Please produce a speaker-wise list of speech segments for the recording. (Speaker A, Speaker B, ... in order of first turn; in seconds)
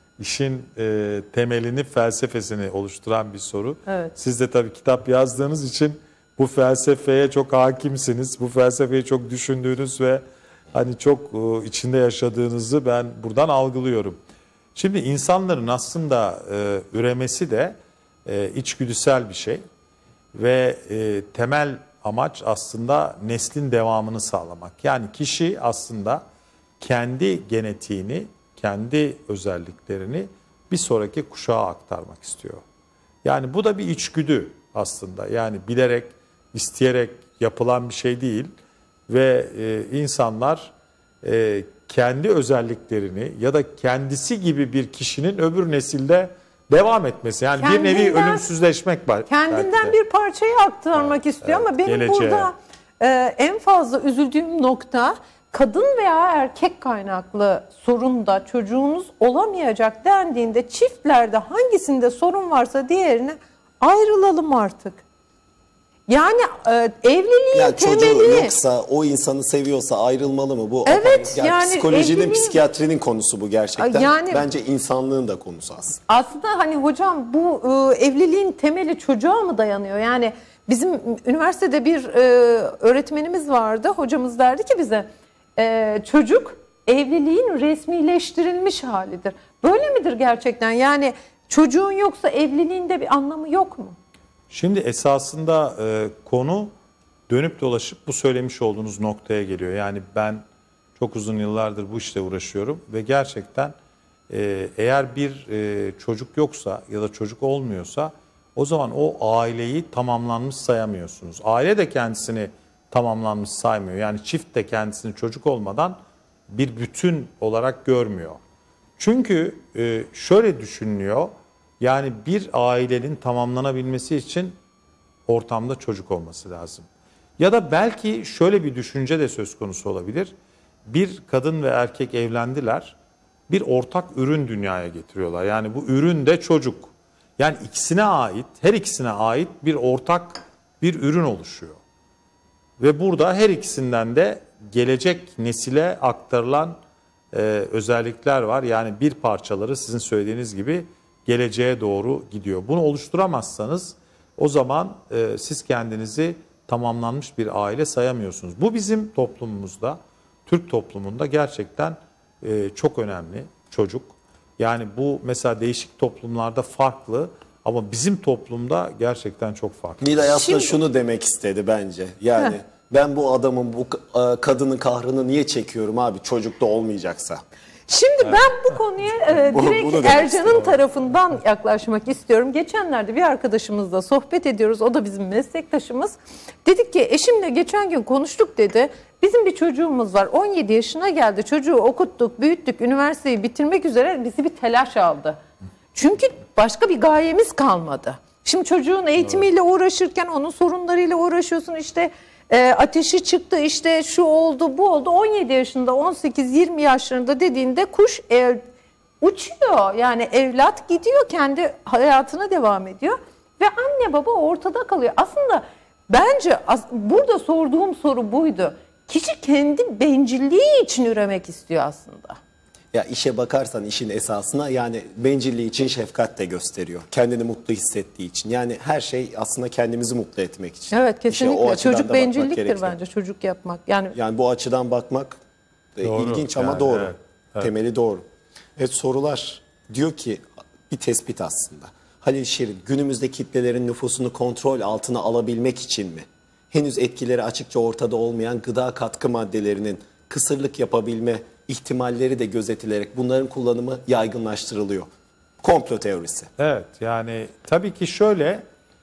Speaker A: 0.2-14.2, 14.8-19.6, 20.4-26.2, 26.8-32.6, 33.2-38.5, 39.1-40.7, 41.2-50.0, 51.0-52.5, 94.5-96.7, 97.3-100.4, 101.0-103.7, 104.3-116.0, 116.5-118.4, 119.0-124.6, 125.3-126.9, 127.4-130.3, 130.9-133.0, 133.5-141.8, 142.8-146.8, 147.3-170.4, 236.0-237.7, 256.6-258.6
Speaker B: 3.9-4.1, 47.5-48.5, 49.3-65.0, 66.1-68.5, 70.9-72.6, 73.8-74.5, 76.1-94.0, 170.3-170.8, 177.9-195.4, 195.9-208.6, 209.2-222.4, 230.9-234.2
Speaker C: 67.5-76.0, 170.0-177.4, 179.4-180.7, 222.9-233.0, 234.2-235.4, 236.0-238.2, 238.8-255.1, 255.6-256.5